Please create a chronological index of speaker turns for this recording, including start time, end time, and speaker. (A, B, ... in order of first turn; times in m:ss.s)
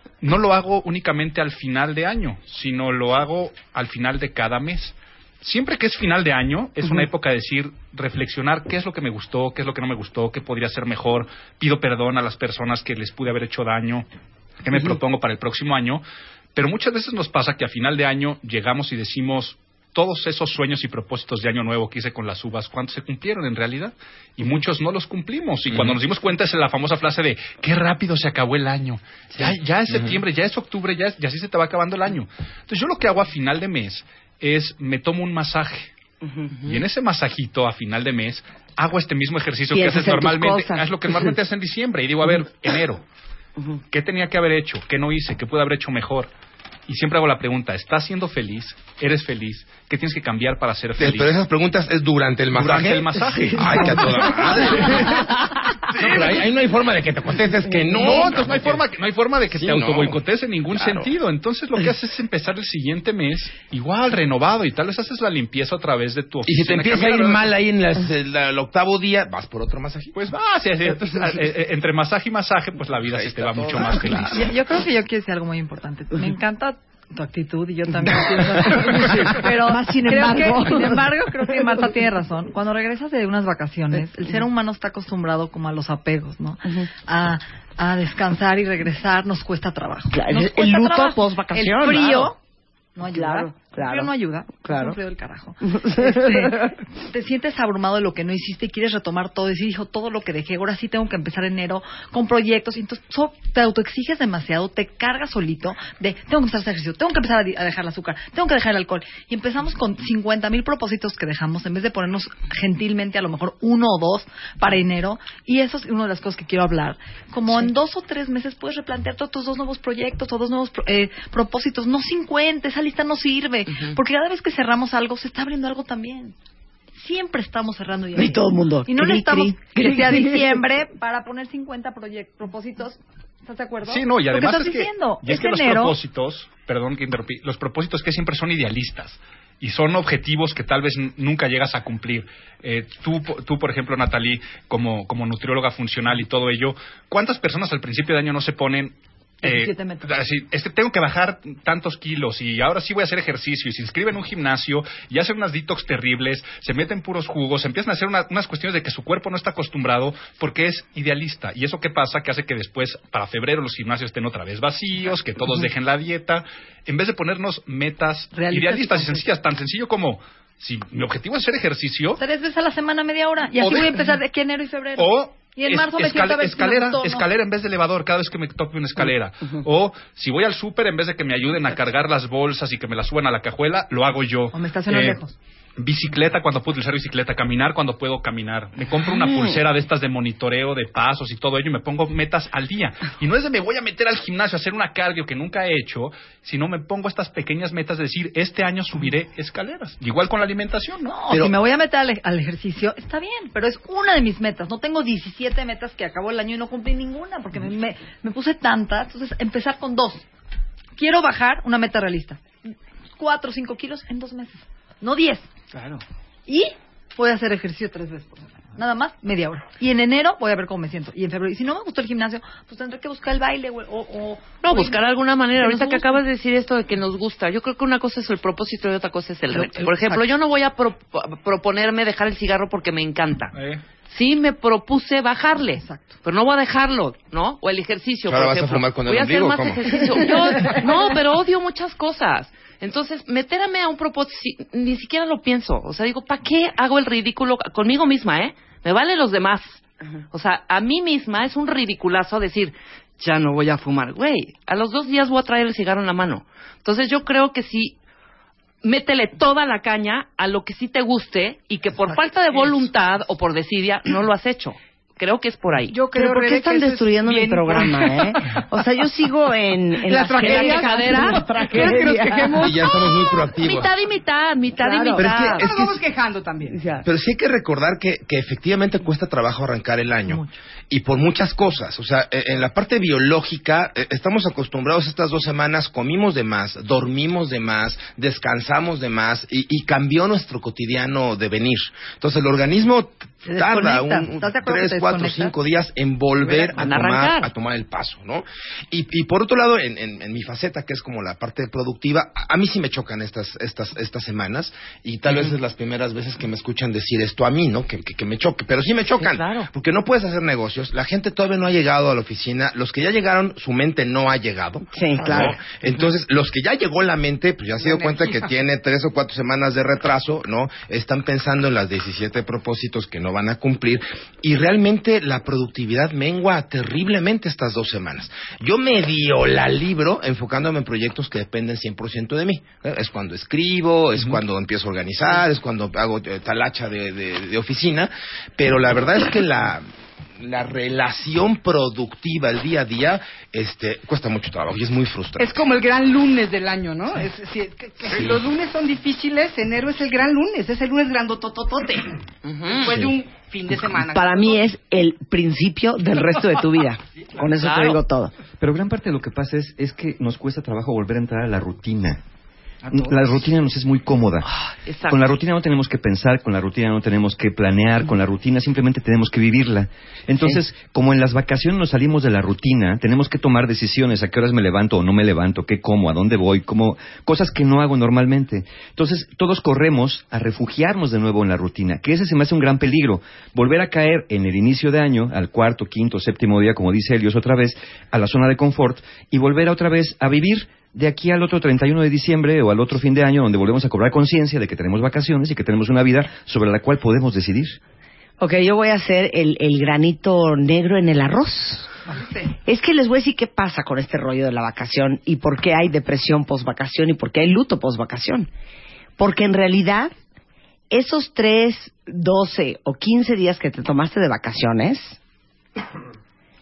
0:00.2-0:14.1 A
0:14.6-0:16.0 A
0:16.6-0:35.9 A
0:36.2-0:36.5 B
0:36.6-0:43.0 A
0:39.7-0:41.3 B
0:43.9-0:46.3 A
0:46.9-0:51.4 A
0:51.0-0:55.3 C
0:52.5-0:55.0 A
0:53.4-0:53.9 B
0:55.9-0:58.8 C
0:56.0-0:56.4 A
0:57.9-1:07.5 A
0:59.5-1:00.2 C
1:00.7-1:01.1 C
1:06.5-1:10.2 C
1:10.1-1:14.5 A
1:13.1-1:14.5 C
1:14.3-1:32.4 D
1:18.6-1:21.1 B
1:30.1-1:32.3 B
1:33.0-2:06.4 D
1:33.1-1:34.1 B
1:34.6-1:35.0 B
1:35.6-1:36.8 B
2:07.0-2:16.0 D
2:08.2-2:10.6 B
2:13.9-2:52.2 A
2:29.4-2:30.1 D
2:48.4-2:49.2 D
2:52.2-2:57.3 D
2:53.6-2:54.1 A
2:55.0-3:05.2 A
3:04.5-3:05.3 D
3:05.8-3:21.0 A
3:21.0-3:30.2 D
3:31.0-3:35.5 D
3:35.8-3:36.0 E
3:36.5-3:45.0 D
3:44.6-3:53.5 F
3:45.6-3:46.2 D
3:49.5-3:50.3 D
3:53.5-3:53.8 A
3:54.1-4:09.8 F
3:55.8-3:56.1 D
3:58.3-4:00.2 C
4:10.3-4:18.0 F
4:18.8-4:26.0 F
4:22.5-4:22.8 E
4:25.9-4:28.6 E
4:26.1-4:32.7 B
4:30.0-4:33.1 E
4:30.3-4:31.4 F
4:32.6-4:33.9 C
4:33.6-4:35.6 F
4:34.8-4:35.6 B
4:35.2-4:36.0 C
4:35.6-4:36.8 E
4:36.7-4:37.1 B
4:37.0-5:39.8 C
4:40.3-4:40.6 D
4:53.4-4:55.5 D
4:56.4-4:56.8 D
4:56.8-4:57.5 F
5:09.1-5:09.7 F
5:14.9-5:15.6 B
5:17.8-5:18.6 E
5:40.4-5:45.7 C
5:45.4-5:54.6 E
5:48.1-5:48.4 C
5:52.4-5:53.1 F
5:54.0-5:58.3 B
5:57.5-5:58.0 F
5:58.6-6:02.2 G
6:02.8-6:03.4 E
6:02.9-6:04.5 G
6:04.4-6:05.4 F
6:05.1-6:37.8 G
6:38.4-6:41.9 B
6:42.1-6:42.5 E
6:42.6-6:48.5 B
6:49.2-6:50.1 B
6:50.9-6:55.2 B